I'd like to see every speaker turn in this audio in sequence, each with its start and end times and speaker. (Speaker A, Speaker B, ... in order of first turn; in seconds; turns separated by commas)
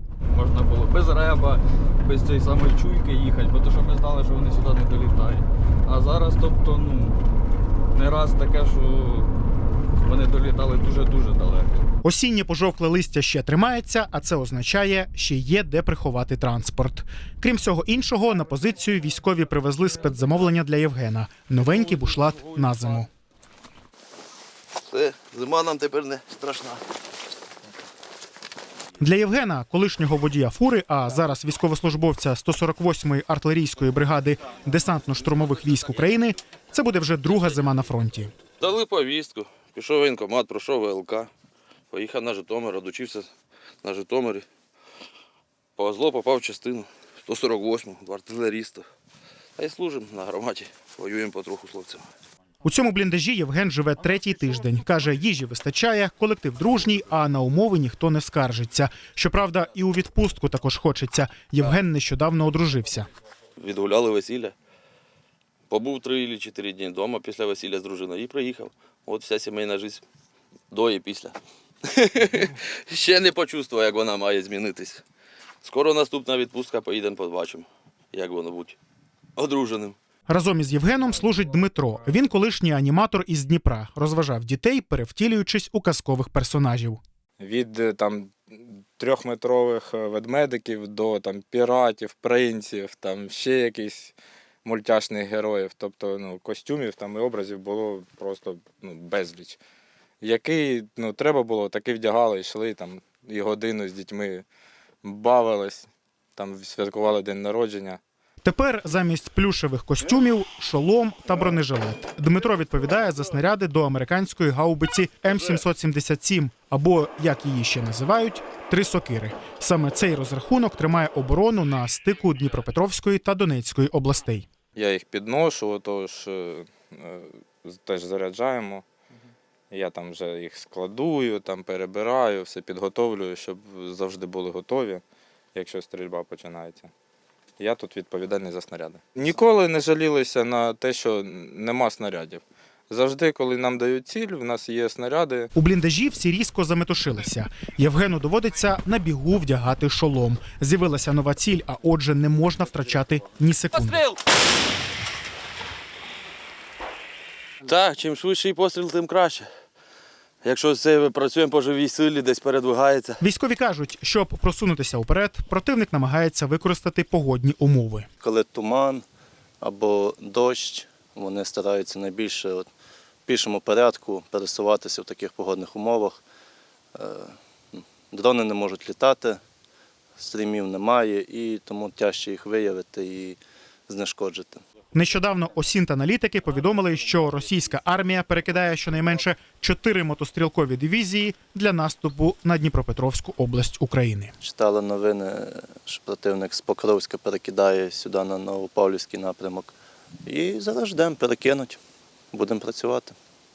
Speaker A: 0.3-7.2, Speaker A: 7.9-9.3, Speaker A: 10.0-11.9, Speaker B: 12.0-23.1, Speaker C: 24.8-26.8, Speaker B: 29.0-38.3, Speaker C: 38.6-41.3, Speaker C: 41.9-43.3, Speaker C: 43.8-44.5, Speaker C: 45.8-48.9, Speaker C: 49.6-52.1, Speaker B: 52.6-63.1, Speaker C: 63.6-64.5, Speaker C: 65.7-70.0, Speaker C: 70.7-71.4, Speaker C: 71.9-75.0, Speaker C: 75.6-78.8, Speaker C: 79.4-80.0, Speaker B: 80.3-87.0, Speaker D: 87.4-99.6, Speaker D: 100.2-104.5, Speaker D: 105.0-108.0, Speaker B: 108.4-124.5, Speaker D: 124.8-128.9, Speaker D: 129.7-135.0, Speaker D: 135.6-136.9, Speaker D: 137.6-145.5, Speaker B: 145.6-154.1, Speaker C: 157.6-159.5, Speaker C: 160.4-163.2, Speaker B: 163.2-168.1, Speaker E: 168.2-169.1, Speaker E: 169.6-172.7, Speaker E: 173.3-176.2, Speaker E: 176.9-179.4, Speaker E: 180.2-184.6, Speaker B: 184.9-194.3, Speaker E: 194.4-199.7, Speaker E: 200.2-201.8, Speaker E: 202.3-203.2